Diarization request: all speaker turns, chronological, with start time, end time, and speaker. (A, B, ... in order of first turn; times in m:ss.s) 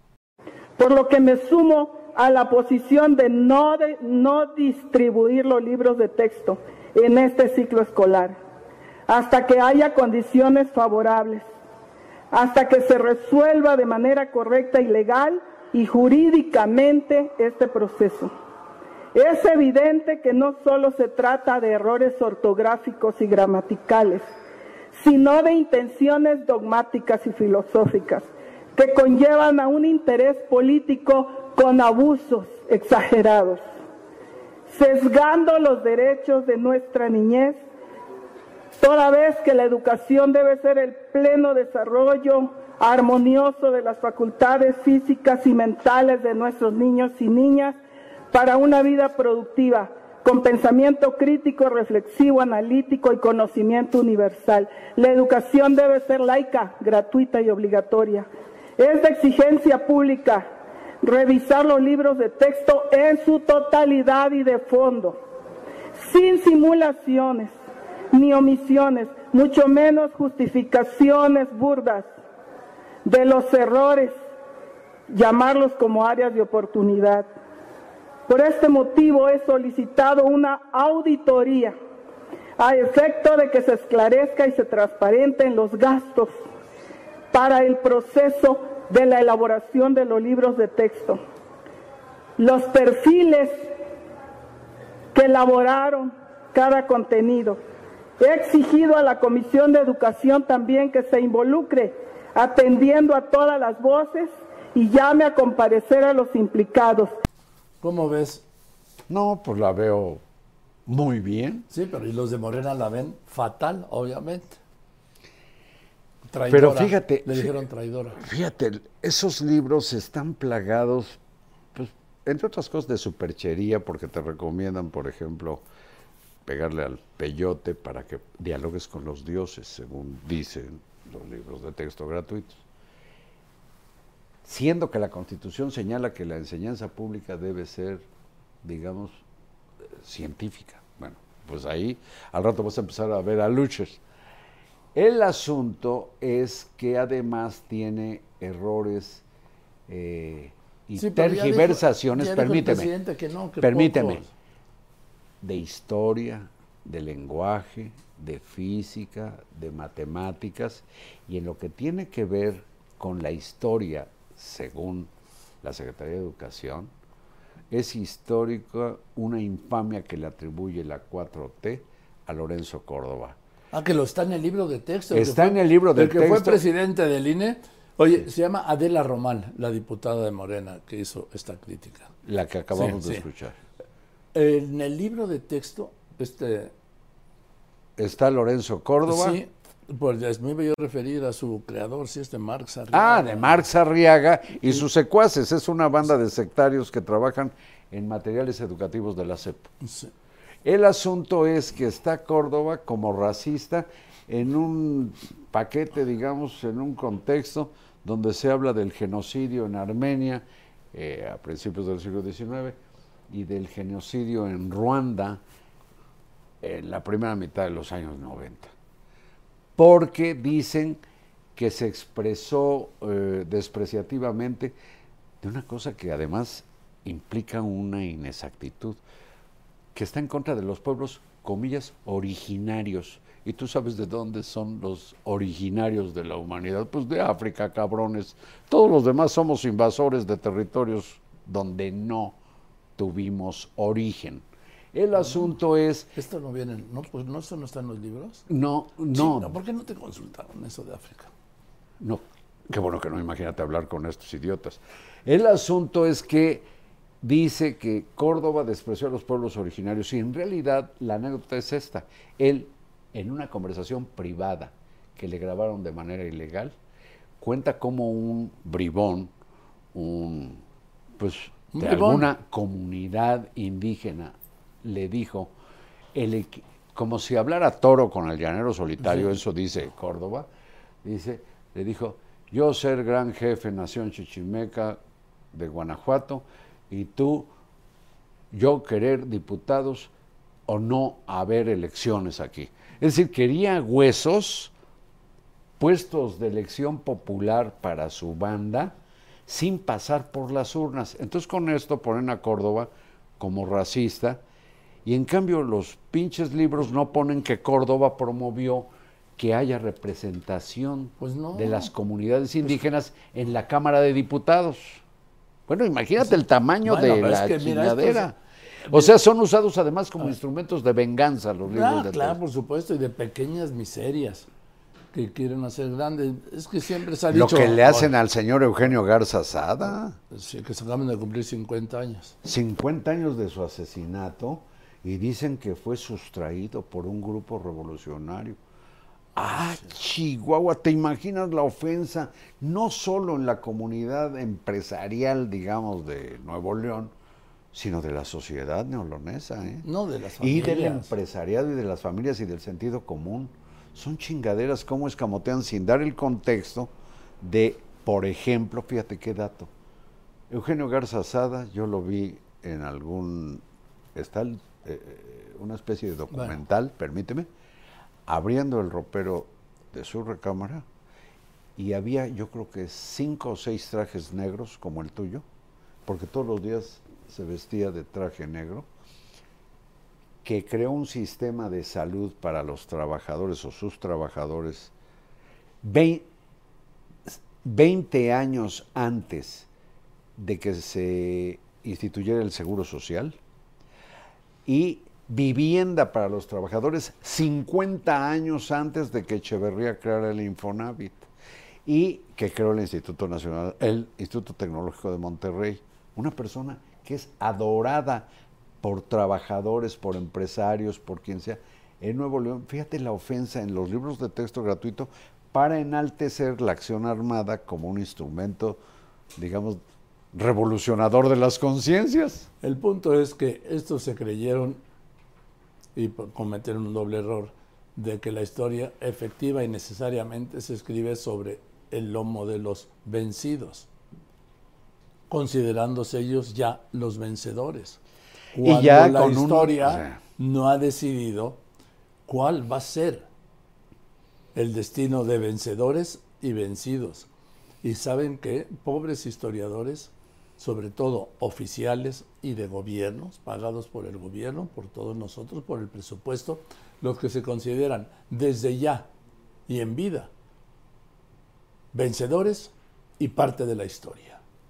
0:00.8-0:08.4 A
0:09.1-0:11.5 A
0:12.3-0:18.3 A
0:19.1-0:24.2 A
0:24.9-0:33.6 A
0:34.7-0:37.6 A
0:38.8-0:47.8 A
0:48.3-1:00.5 A
1:01.0-1:05.2 A
1:06.0-1:07.6 A
1:08.1-1:12.1 A
1:13.0-1:14.2 A
1:15.1-1:17.3 A
1:18.3-1:21.8 A
1:22.6-1:26.4 A
1:27.3-1:31.2 A
1:32.4-1:33.7 A
1:35.2-1:37.6 A
1:38.2-1:47.1 A
1:47.8-1:48.4 B
1:49.1-1:50.2 C
1:50.9-1:51.7 C
1:51.7-1:54.6 B
1:56.3-1:58.2 B
1:56.5-1:57.5 C
1:58.2-2:01.2 C
2:01.8-2:05.6 C
2:06.5-2:12.6 C
2:14.4-2:18.1 C
2:18.6-2:19.2 C
2:19.9-2:24.0 C
2:24.9-2:29.2 C
2:29.9-2:32.9 C
2:31.0-2:34.3 B
2:33.6-2:34.2 C
2:35.4-2:45.1 C
2:45.6-2:46.9 C
2:47.7-2:53.4 C
2:53.7-3:02.1 B
2:55.1-2:56.6 C
3:02.2-3:03.6 C
3:02.8-3:03.2 B
3:04.3-3:06.7 B
3:08.0-3:09.4 C
3:09.1-3:13.6 B
3:12.9-3:19.7 C
3:19.8-3:20.1 B
3:20.6-3:32.8 C
3:33.3-3:35.4 C
3:36.6-3:38.7 C
3:39.8-3:41.0 C
3:41.6-3:44.8 C
3:45.4-3:49.0 C
3:49.9-4:02.4 C
4:03.0-4:06.1 C
4:06.2-4:08.5 B
4:08.5-4:09.6 C
4:09.1-4:11.3 B
4:12.0-4:16.7 C
4:17.2-4:26.8 C
4:27.4-4:29.3 C
4:29.9-4:30.6 C
4:31.2-4:35.5 C
4:31.7-4:32.3 B
4:36.1-4:40.5 C
4:41.0-4:45.0 C
4:45.5-4:47.5 C
4:48.5-4:50.1 C
4:50.7-4:54.7 C
4:55.8-5:04.4 C
5:05.0-5:15.0 C
5:11.2-5:11.9 B
5:15.7-5:18.4 C
5:16.8-5:18.3 B
5:18.9-5:22.4 C
5:21.7-5:24.5 B
5:25.1-5:28.1 B
5:27.3-5:30.2 C
5:30.3-5:32.4 B
5:32.4-5:38.6 C
5:39.4-5:47.1 C
5:47.7-5:49.9 C
5:49.8-5:51.1 B
5:50.4-5:59.7 C
6:00.5-6:03.6 C
6:04.2-6:07.5 C
6:06.3-6:06.6 B
6:08.3-6:10.9 C
6:11.8-6:15.5 C
6:16.1-6:18.9 C
6:20.4-6:24.9 C
6:25.8-6:26.3 C
6:27.3-6:29.7 C
6:30.4-6:33.4 C
6:34.7-6:41.3 C
6:41.8-6:48.3 C
6:48.8-6:58.8 C
6:59.4-6:59.8 C
7:00.3-7:02.5 C
7:02.6-7:04.8 B
7:06.0-7:13.9 B
7:15.3-7:18.0 B
7:18.5-7:21.6 B
7:18.6-7:20.2 C
7:22.3-7:23.3 B
7:24.6-7:27.3 B
7:27.8-7:39.1 B
7:39.7-7:40.3 B
7:41.9-7:44.4 B